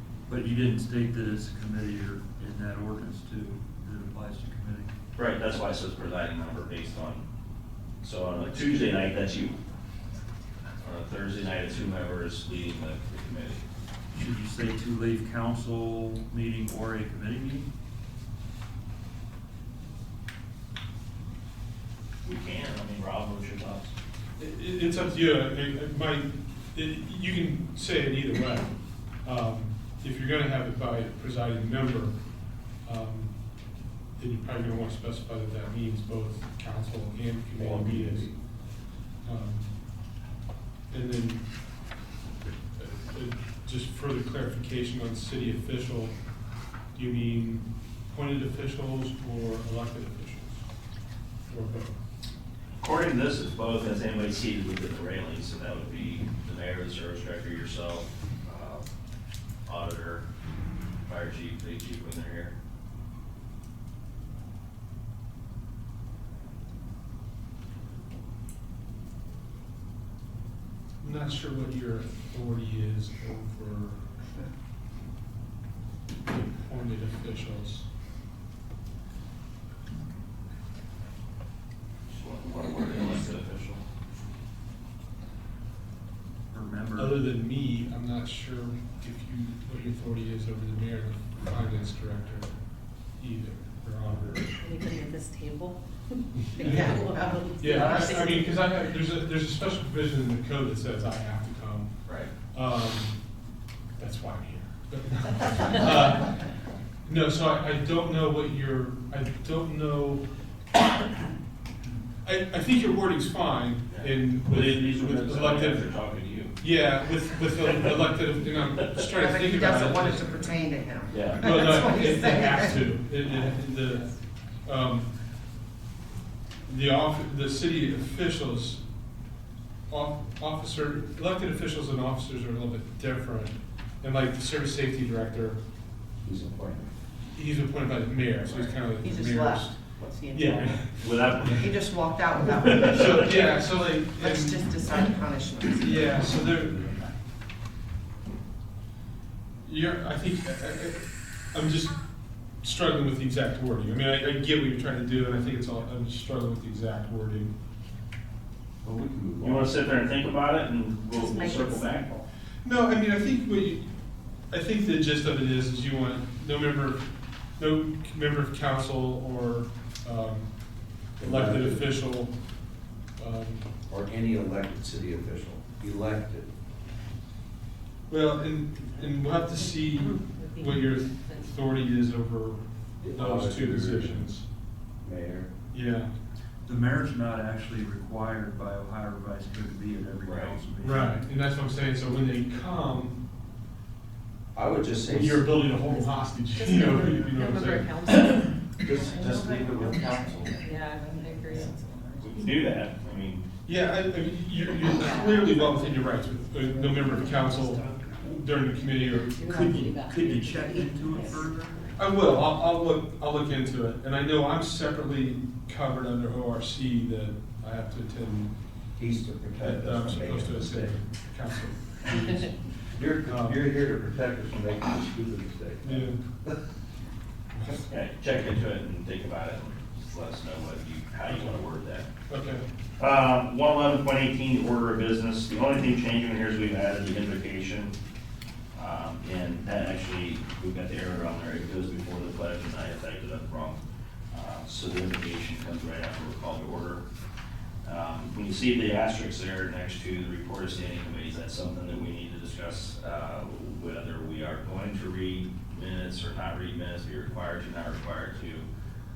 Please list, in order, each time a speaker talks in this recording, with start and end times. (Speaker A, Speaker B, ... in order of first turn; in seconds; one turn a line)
Speaker A: 0.3-4.9
Speaker B: 5.2-7.2
Speaker B: 8.0-9.6
Speaker A: 8.4-9.0
Speaker B: 10.8-13.6
Speaker A: 14.1-17.7
Speaker B: 22.2-23.9
Speaker C: 24.4-28.7
Speaker C: 29.2-32.1
Speaker C: 32.8-33.3
Speaker C: 34.2-38.3
Speaker D: 37.5-38.3
Speaker C: 39.2-39.7
Speaker C: 40.9-41.4
Speaker C: 42.8-46.1
Speaker C: 46.9-50.6
Speaker C: 51.5-51.9
Speaker B: 52.8-58.9
Speaker B: 59.6-60.2
Speaker B: 61.1-62.5
Speaker C: 71.0-74.0
Speaker C: 76.2-77.8
Speaker B: 82.1-83.8
Speaker A: 86.5-87.2
Speaker C: 87.0-92.5
Speaker C: 93.2-94.5
Speaker E: 94.3-98.7
Speaker C: 96.4-97.0
Speaker F: 96.6-98.7
Speaker C: 97.6-101.9
Speaker B: 102.0-102.3
Speaker C: 102.5-103.2
Speaker C: 104.0-106.4
Speaker C: 107.0-110.2
Speaker C: 112.2-115.8
Speaker B: 113.9-116.5
Speaker C: 116.6-120.5
Speaker F: 119.0-122.9
Speaker B: 121.1-121.7
Speaker C: 121.3-124.1
Speaker C: 124.6-125.1
Speaker C: 126.7-128.8
Speaker C: 129.9-135.6
Speaker D: 136.2-136.9
Speaker C: 137.3-139.7
Speaker F: 139.0-146.3
Speaker C: 140.3-141.7
Speaker B: 141.0-141.9
Speaker B: 142.7-143.3
Speaker C: 142.7-145.0
Speaker C: 145.8-146.8
Speaker D: 145.9-147.1
Speaker C: 149.6-152.0
Speaker C: 152.6-157.5
Speaker D: 158.8-159.7
Speaker B: 159.4-162.2
Speaker E: 161.1-162.0
Speaker C: 162.6-163.8
Speaker C: 164.5-170.5
Speaker C: 171.2-172.3
Speaker D: 171.2-171.9
Speaker C: 173.2-173.7
Speaker D: 173.9-176.5
Speaker C: 178.1-184.4
Speaker E: 178.9-181.6
Speaker D: 183.0-184.3
Speaker D: 185.0-185.5
Speaker C: 185.7-186.1
Speaker A: 186.7-191.2
Speaker B: 190.2-190.6
Speaker C: 190.8-193.2
Speaker D: 194.5-195.4
Speaker C: 195.0-198.1
Speaker E: 195.9-198.6
Speaker D: 198.8-200.7
Speaker F: 198.9-202.3
Speaker E: 200.6-201.8
Speaker B: 202.2-203.4
Speaker C: 203.7-210.1
Speaker E: 204.9-207.9
Speaker F: 207.8-208.1
Speaker E: 208.9-211.9
Speaker A: 209.4-211.8
Speaker C: 211.9-218.5
Speaker D: 219.0-221.0
Speaker C: 219.6-222.6
Speaker D: 222.9-226.6
Speaker C: 223.2-223.6
Speaker C: 225.8-226.2
Speaker B: 227.9-232.1
Speaker C: 232.3-232.6
Speaker B: 233.0-237.9
Speaker B: 238.7-243.8
Speaker B: 244.3-247.0
Speaker B: 247.8-258.6